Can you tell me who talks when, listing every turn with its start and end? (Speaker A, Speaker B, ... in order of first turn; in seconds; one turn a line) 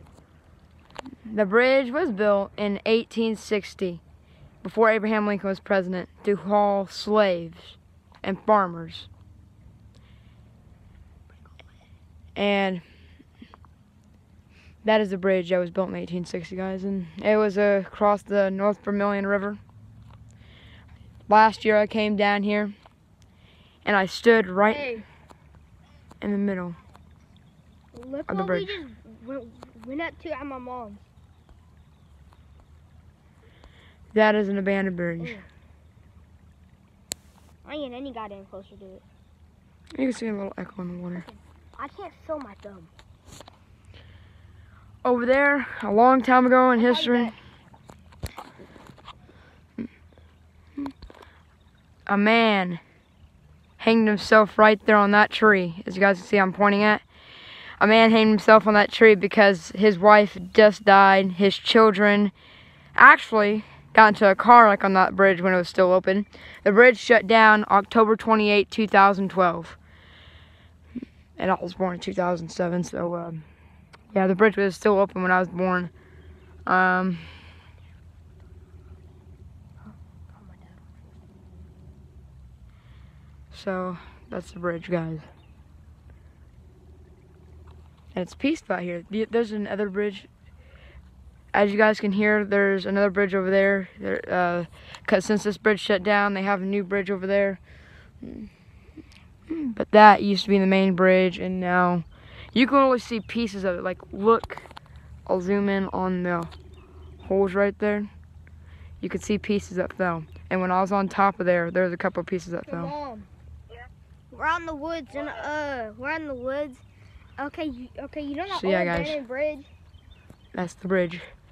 Speaker A: 1.2-4.0
Speaker A: 4.6-9.1
Speaker A: 12.3-12.8
Speaker A: 14.8-19.6
Speaker A: 21.3-22.7
Speaker A: 23.8-25.0
Speaker B: 24.7-25.0
Speaker A: 26.2-26.8
Speaker B: 27.9-31.1
Speaker A: 28.3-28.8
Speaker A: 34.1-35.4
Speaker B: 35.2-35.4
Speaker B: 37.6-39.0
Speaker A: 40.0-41.2
Speaker B: 41.1-42.9
Speaker A: 45.0-47.4
Speaker B: 46.7-47.4
Speaker A: 52.1-52.8
Speaker A: 53.8-57.0
Speaker A: 57.8-62.3
Speaker A: 62.9-69.8
Speaker A: 71.4-73.4
Speaker A: 74.1-75.9
Speaker A: 76.7-77.2
Speaker B: 79.9-80.9
Speaker A: 83.5-85.2
Speaker A: 88.1-90.3
Speaker A: 91.5-97.6
Speaker A: 98.2-98.5
Speaker A: 99.5-104.7
Speaker A: 105.3-106.5
Speaker A: 107.2-108.1
Speaker A: 109.0-112.9
Speaker B: 112.7-113.3
Speaker B: 114.3-116.8
Speaker B: 117.4-119.7
Speaker A: 118.5-119.2
Speaker A: 120.5-121.2